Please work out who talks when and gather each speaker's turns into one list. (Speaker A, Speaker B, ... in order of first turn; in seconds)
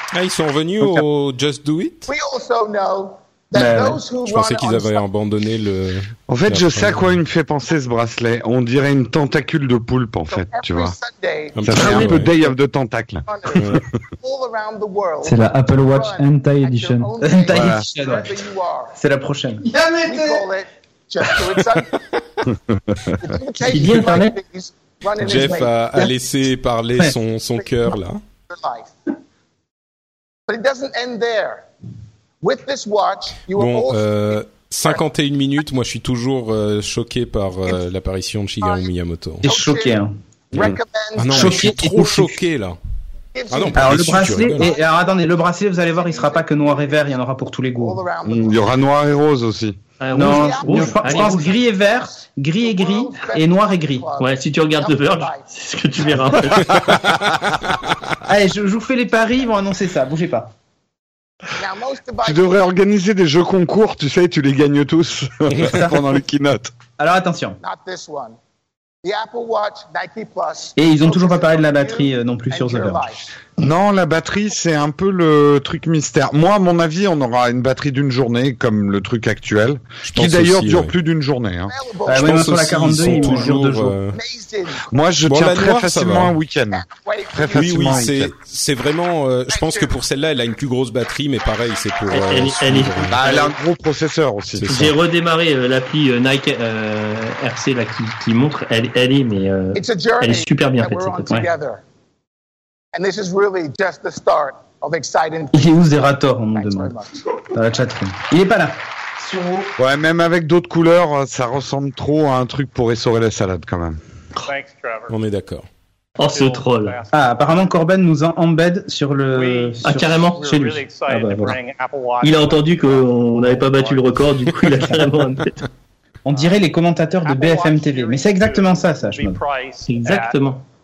Speaker A: 0.1-2.1, 4.2-7.2, 11.5-12.3, 13.5-13.8, 25.2-28.2, 33.5-39.5, 40.5-42.8, 43.5-44.8, 56.6-57.5, 80.0-80.9, 82.1-84.2, 85.2-86.4, 87.5-93.4, 94.5-95.0, 115.1-115.7
Speaker B: 2.1-5.0, 10.3-12.5, 13.2-18.9, 20.0-22.0, 23.2-26.1, 28.5-28.9, 30.5-31.6, 32.4-35.0, 38.6-38.9, 39.4-41.8, 43.3-47.2, 47.7-48.8, 50.1-52.0, 52.6-56.4, 61.5-62.7, 67.6-68.3, 69.0-73.3, 81.7-83.5, 84.1-85.0, 86.7-88.0, 89.5-90.0, 99.7-101.8, 102.9-107.2
Speaker C: 3.5-4.0, 15.2-18.3, 18.9-20.2, 23.7-24.1, 39.4-40.1, 41.3-42.4, 43.7-48.0, 50.1-54.1, 58.2-60.5, 65.6-66.0, 67.0-67.6, 70.8-73.1, 82.0-84.0, 105.5-106.9, 107.5-108.8, 117.1-121.5, 126.2-129.4
Speaker D: 6.3-11.0, 11.6-13.8, 17.5-17.9, 40.5-40.8, 48.2-49.8, 62.2-66.7, 73.6-81.7, 84.9-88.3, 93.1-94.7, 109.8-114.0
Speaker E: 23.6-24.4, 50.0-51.6, 54.2-56.8, 92.1-93.5, 94.6-101.5, 116.2-117.0, 119.8-120.8, 122.2-125.6, 129.8-130.6
Speaker F: 114.4-115.2, 116.2-117.8, 119.3-124.2, 126.3-126.6, 127.2-130.4